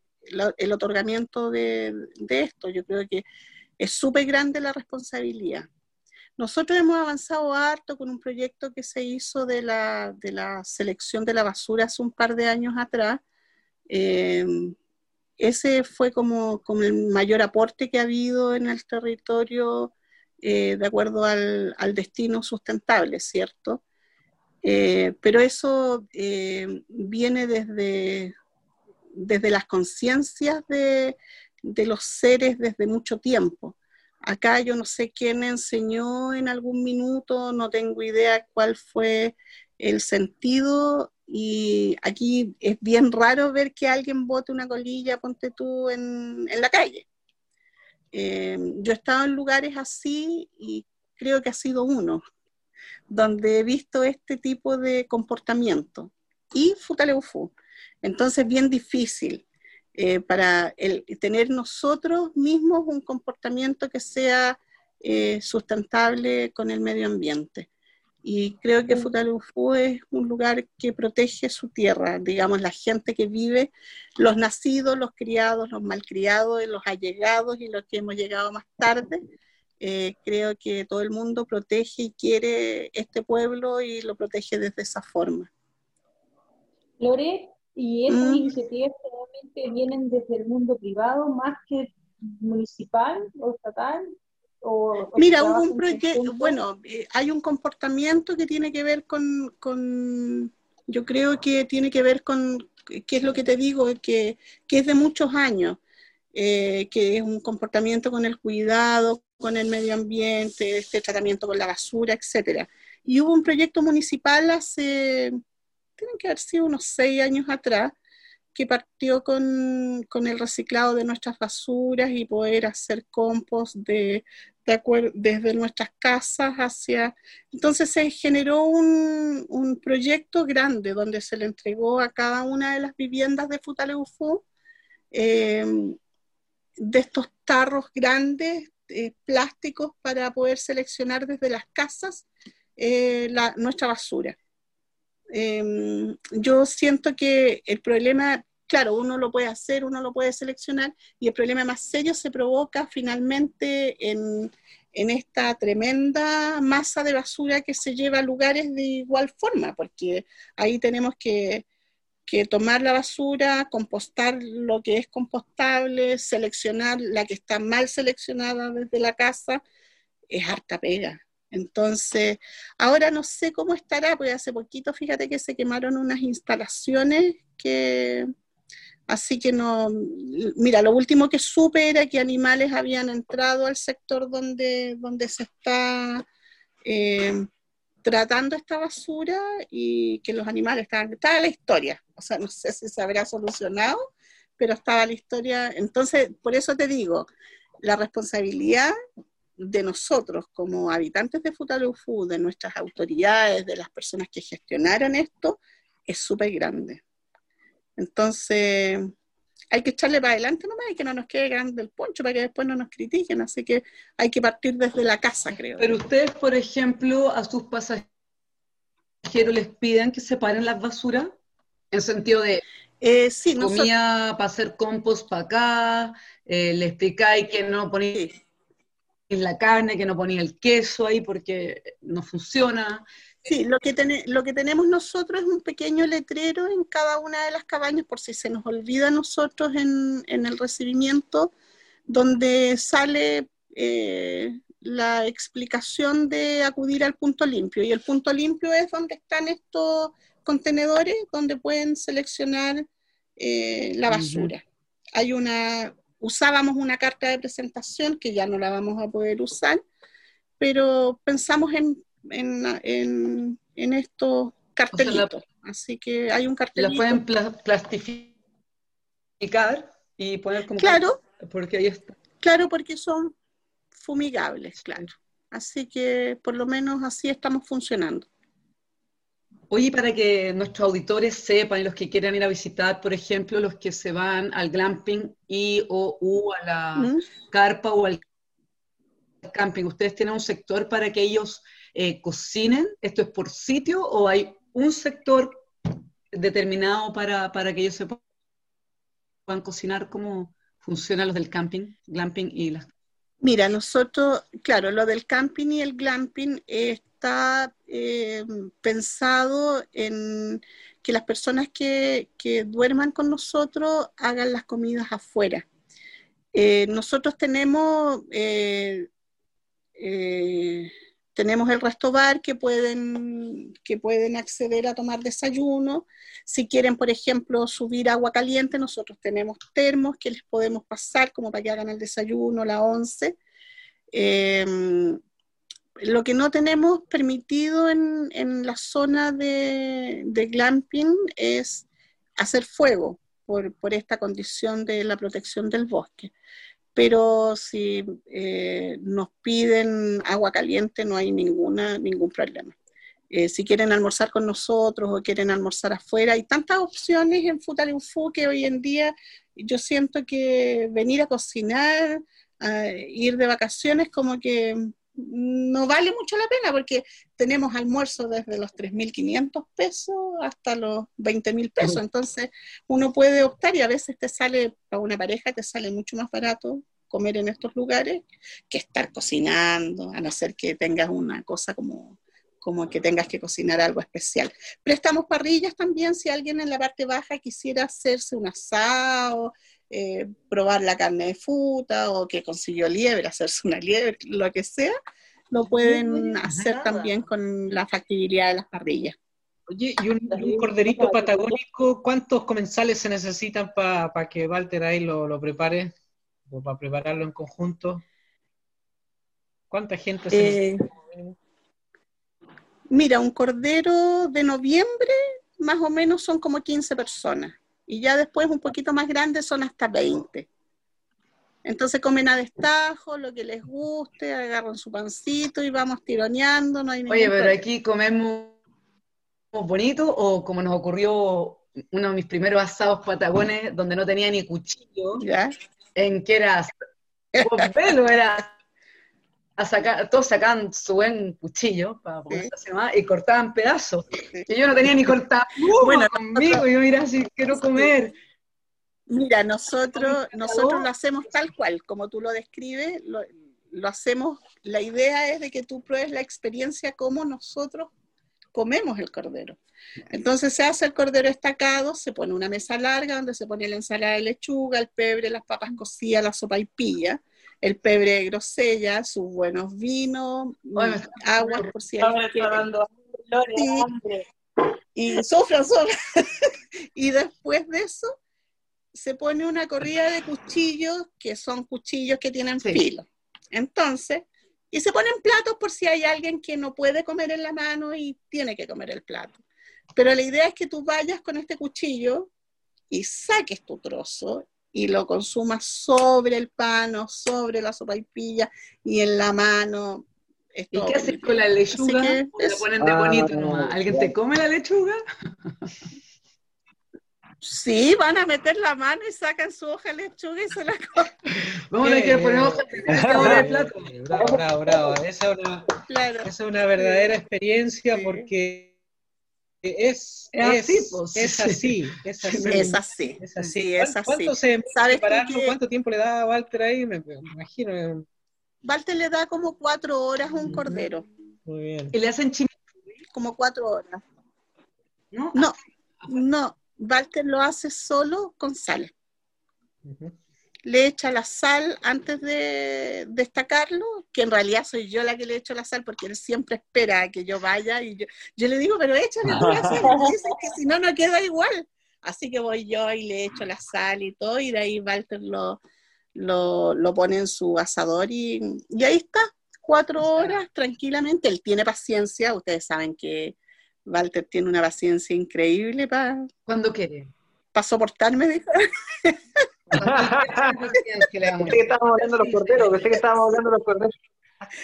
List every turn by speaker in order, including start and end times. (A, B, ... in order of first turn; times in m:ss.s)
0:00.3-0:03.2 A
0:03.8-0:05.7 A
0:06.4-0:13.2 A
0:13.9-0:14.7 A
0:15.4-0:23.8 A
0:24.6-0:28.3 A
0:29.1-0:47.0 A
0:48.1-0:52.2 A
0:53.1-0:59.4 A
0:59.9-1:07.7 A
1:08.2-1:19.2 A
1:19.8-1:25.5 A
1:27.0-1:36.6 B
1:28.1-1:28.5 A
1:35.2-1:45.8 A
1:46.3-1:55.4 A
1:56.0-1:57.9 A
1:58.5-2:14.4 A
2:15.1-2:16.0 A
2:16.8-2:22.2 A
2:22.8-2:24.4 A
2:25.3-2:41.6 A
2:42.2-2:49.6 A
2:50.3-2:58.3 A
2:59.1-3:06.2 A
3:06.8-3:07.5 A
3:08.0-3:14.0 A
3:14.6-3:17.3 A
3:17.8-3:18.9 A
3:19.6-3:27.0 A
3:28.0-3:29.1 A
3:29.7-3:36.0 A
3:35.8-3:38.1 C
3:39.2-3:41.3 C
3:41.9-3:42.6 C
3:43.0-3:43.9 A
3:43.6-3:48.3 C
3:49.3-3:53.0 C
3:53.4-4:01.5 A
4:02.1-4:12.8 A
4:13.4-4:14.6 A
4:14.1-4:14.5 C
4:15.1-4:19.8 A
4:20.6-4:27.2 A
4:24.9-4:25.3 C
4:26.8-4:28.3 C
4:29.4-4:32.1 C
4:30.8-4:31.2 A
4:32.4-4:33.3 A
4:34.0-4:38.2 A
4:39.7-4:48.2 C
4:47.0-4:47.2 A
4:49.4-4:55.6 C
4:56.3-4:58.2 C
4:59.5-5:02.9 C
5:03.4-5:15.6 A
5:16.5-5:19.1 A
5:20.0-5:33.4 A
5:34.1-5:35.2 A
5:36.0-5:41.8 A
5:42.4-5:46.3 A
5:46.9-5:52.7 A
5:53.3-6:34.9 A
6:35.5-6:39.1 A
6:35.6-6:37.2 C
6:39.7-6:45.9 D
6:46.5-6:48.0 D
6:49.7-6:51.4 D
6:50.3-6:50.8 A
6:52.9-7:00.5 A
7:01.6-7:07.6 A
7:07.1-7:08.6 C
7:09.5-7:15.2 C
7:15.2-7:15.5 A
7:16.0-7:16.7 C
7:17.4-7:18.5 C
7:19.6-7:28.1 C
7:25.8-7:26.6 A
7:27.5-7:27.9 A
7:29.1-7:37.9 A
7:29.9-7:30.9 C
7:38.5-7:39.6 A
7:40.1-7:52.6 A
7:50.8-7:51.7 C
7:52.2-7:54.2 B
7:52.4-7:52.6 C
7:53.5-7:53.9 A
7:55.0-7:58.2 A
7:58.9-8:09.4 A
8:10.0-8:12.3 A
8:12.9-8:22.6 A
8:20.7-8:25.7 C
8:22.8-8:24.1 E
8:27.4-8:31.1 A
8:31.7-8:33.9 C
8:31.8-8:38.7 D
8:32.9-8:33.4 E
8:34.1-8:35.0 E
8:35.9-8:37.1 A
8:37.9-8:38.3 A
8:39.6-8:48.0 D
8:40.3-8:41.8 C
8:42.3-8:45.5 A
8:48.6-8:51.1 A
8:50.5-8:50.9 D
8:51.5-8:51.9 D
8:51.9-8:52.6 C
8:53.1-8:54.0 A
8:55.1-8:55.5 C
8:56.1-8:58.9 A
8:59.8-9:00.1 D
9:00.7-9:15.6 A
9:09.2-9:09.9 E
9:16.1-9:26.3 A
9:26.5-9:27.1 C
9:27.5-9:29.2 A
9:29.8-9:30.5 E
9:29.8-9:33.0 C
9:31.4-9:33.9 E